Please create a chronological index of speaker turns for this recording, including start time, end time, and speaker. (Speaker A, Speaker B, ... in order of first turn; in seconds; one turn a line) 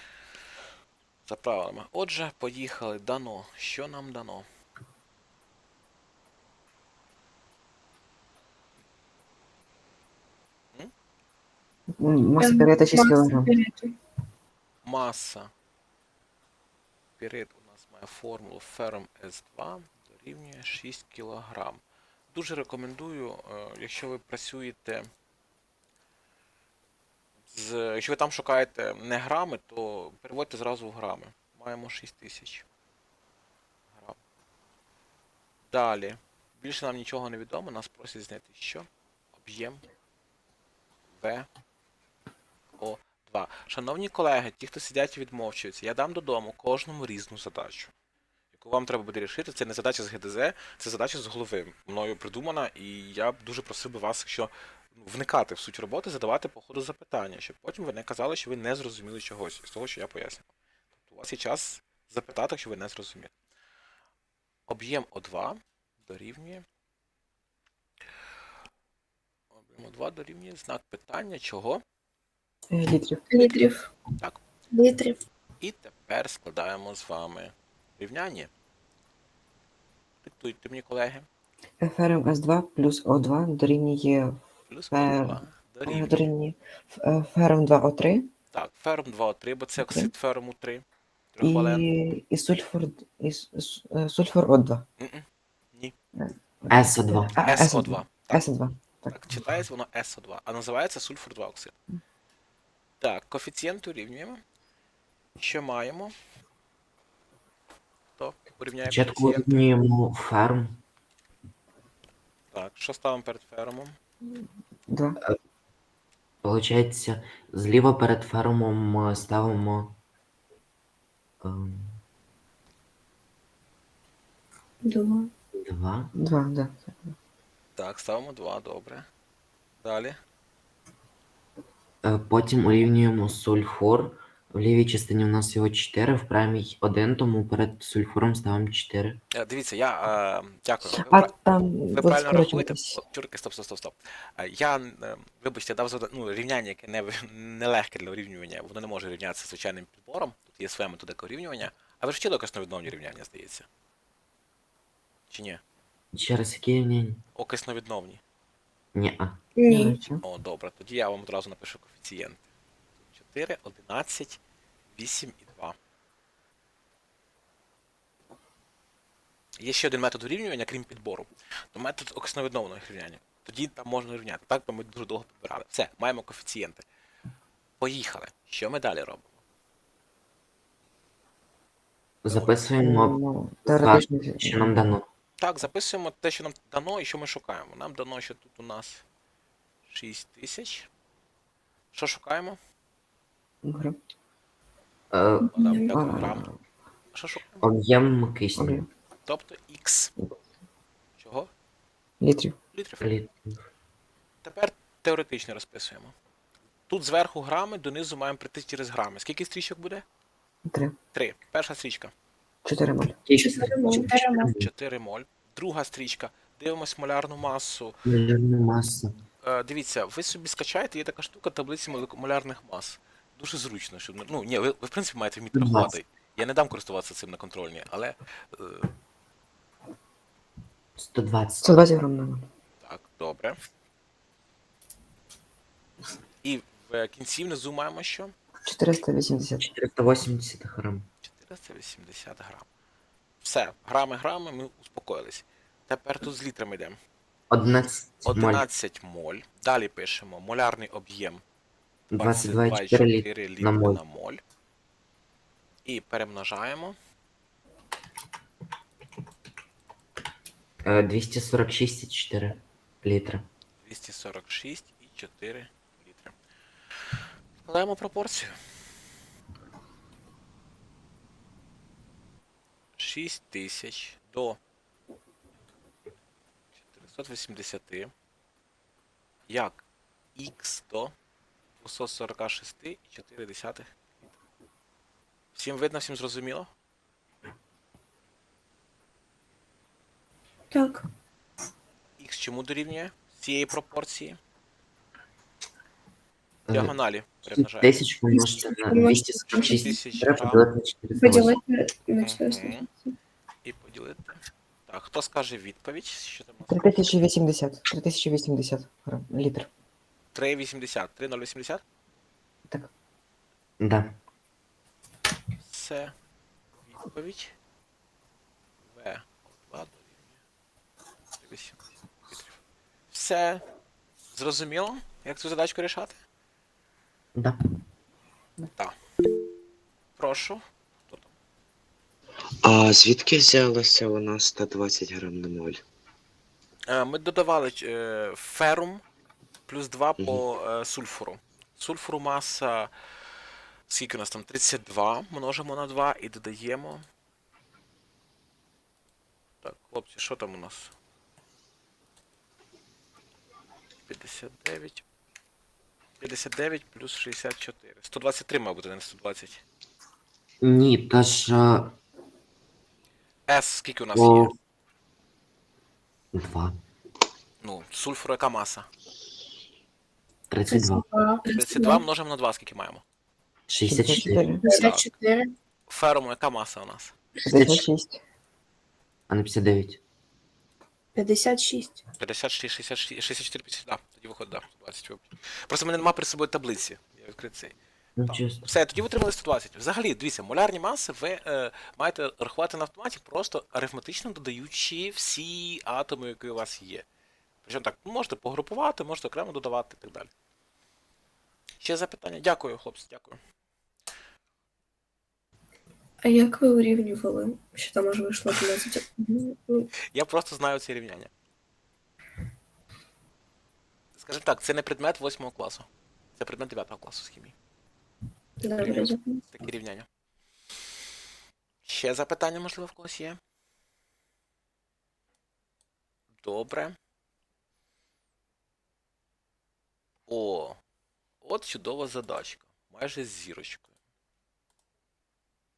Speaker A: 1.3-4.4
Speaker B: 12.0-13.5
Speaker C: 12.4-13.9
Speaker A: 14.8-15.5
Speaker A: 17.2-25.1
Speaker A: 27.5-32.6
Speaker A: 35.7-39.8
Speaker A: 41.1-41.5
Speaker A: 42.8-47.9
Speaker A: 48.5-60.5
Speaker A: 61.0-63.3
Speaker A: 64.7-66.6
Speaker A: 69.5-71.8
Speaker B: 72.7-73.2
Speaker C: 73.3-73.9
Speaker C: 74.7-75.2
Speaker A: 75.6-78.5
Speaker A: 80.2-81.2
Speaker B: 81.8-88.3
Speaker A: 84.7-86.2
Speaker A: 88.5-91.8
Speaker B: 89.8-90.1
Speaker B: 91.4-94.8
Speaker A: 95.0-95.9
Speaker B: 96.2-99.1
Speaker D: 96.7-97.3
Speaker A: 97.4-98.5
Speaker A: 99.0-101.7
Speaker A: 103.0-104.4
Speaker A: 105.4-106.1
Speaker A: 108.2-109.5
Speaker D: 108.8-110.8
Speaker A: 112.5-114.0
Speaker B: 114.3-115.2
Speaker D: 116.4-120.0
Speaker D: 121.4-122.0
Speaker C: 124.8-125.3
Speaker D: 125.5-126.1
Speaker B: 126.1-127.1
Speaker A: 127.8-129.1
Speaker A: 129.8-130.2
Speaker D: 132.0-139.2
Speaker A: 139.3-141.3
Speaker B: 140.9-143.0
Speaker A: 141.9-153.7
Speaker A: 155.3-155.6
Speaker D: 156.1-157.2
Speaker A: 157.3-158.2
Speaker D: 158.9-159.4
Speaker C: 159.6-160.0
Speaker B: 159.7-160.2
Speaker A: 160.2-162.4
Speaker A: 163.1-164.4
Speaker A: 164.9-165.8
Speaker A: 169.6-176.8
Speaker A: 177.8-179.3
Speaker D: 182.2-185.0
Speaker A: 182.3-182.5
Speaker B: 182.8-184.8
Speaker A: 185.4-189.0
Speaker A: 189.9-190.9
Speaker A: 191.9-192.6
Speaker B: 193.6-194.0
Speaker D: 195.1-195.5
Speaker C: 195.5-195.9
Speaker A: 195.5-196.5
Speaker B: 195.9-196.6
Speaker A: 197.1-197.7
Speaker D: 197.6-198.8
Speaker B: 198.6-198.9
Speaker A: 199.2-200.1
Speaker A: 201.2-201.5
Speaker B: 202.2-202.6
Speaker A: 202.7-203.1
Speaker D: 203.0-203.6
Speaker A: 204.4-206.1
Speaker A: 206.9-210.0
Speaker B: 210.7-210.9
Speaker A: 211.1-212.1
Speaker B: 212.6-213.2
Speaker D: 213.2-214.7
Speaker C: 213.4-214.5
Speaker A: 214.4-218.0
Speaker D: 218.0-219.1
Speaker A: 219.4-228.9
Speaker D: 225.5-225.9
Speaker D: 231.0-231.9
Speaker B: 231.6-232.5
Speaker A: 232.8-233.6
Speaker A: 236.4-238.3
Speaker B: 238.6-239.7
Speaker D: 239.6-241.1
Speaker A: 241.2-242.7
Speaker A: 243.4-247.0
Speaker D: 247.5-248.6
Speaker A: 248.2-251.4
Speaker D: 252.1-254.0
Speaker A: 252.2-254.4
Speaker A: 255.8-257.0
Speaker D: 260.8-263.4
Speaker A: 263.8-266.3
Speaker A: 267.6-268.5
Speaker A: 273.0-274.6
Speaker A: 276.9-278.1
Speaker A: 279.5-279.8
Speaker A: 280.4-281.1
Speaker A: 281.8-283.9
Speaker A: 285.5-286.7
Speaker C: 290.7-291.1
Speaker A: 292.2-294.4
Speaker D: 296.7-296.9
Speaker A: 296.7-297.9
Speaker D: 297.5-301.5
Speaker C: 298.3-299.8
Speaker A: 299.6-300.6
Speaker C: 301.2-303.1
Speaker A: 302.2-302.9
Speaker A: 303.6-307.1
Speaker B: 306.7-309.7
Speaker A: 310.3-311.8
Speaker D: 313.8-314.1
Speaker A: 315.6-316.1
Speaker A: 316.9-317.5
Speaker A: 318.9-320.2
Speaker A: 321.4-321.8
Speaker A: 322.3-322.5
Speaker A: 323.1-323.6
Speaker A: 324.3-326.2
Speaker D: 327.3-327.6
Speaker A: 330.2-331.3
Speaker E: 332.6-335.8
Speaker A: 336.9-339.0
Speaker A: 339.7-342.9
Speaker A: 343.9-347.0
Speaker A: 349.6-350.9
Speaker A: 354.1-355.0
Speaker A: 356.2-359.6
Speaker D: 360.6-361.9
Speaker A: 363.5-364.5
Speaker D: 364.1-364.5
Speaker D: 366.3-366.8
Speaker A: 367.6-368.9
Speaker D: 370.5-371.0
Speaker C: 370.7-372.0
Speaker A: 371.5-373.0
Speaker D: 373.7-374.5
Speaker B: 373.9-374.6
Speaker A: 374.6-375.1
Speaker C: 374.6-375.5
Speaker A: 375.9-377.1
Speaker B: 377.4-378.2
Speaker C: 377.6-377.8
Speaker D: 379.3-380.0
Speaker C: 381.1-382.0
Speaker A: 382.2-397.0
Speaker D: 388.2-388.7
Speaker A: 397.6-400.3
Speaker A: 401.8-403.4
Speaker C: 406.2-409.9
Speaker A: 410.1-411.3
Speaker A: 414.1-417.5
Speaker C: 418.6-419.4
Speaker A: 418.8-420.1
Speaker A: 421.8-423.4
Speaker A: 426.4-427.0
Speaker A: 430.3-430.8
Speaker A: 431.4-433.9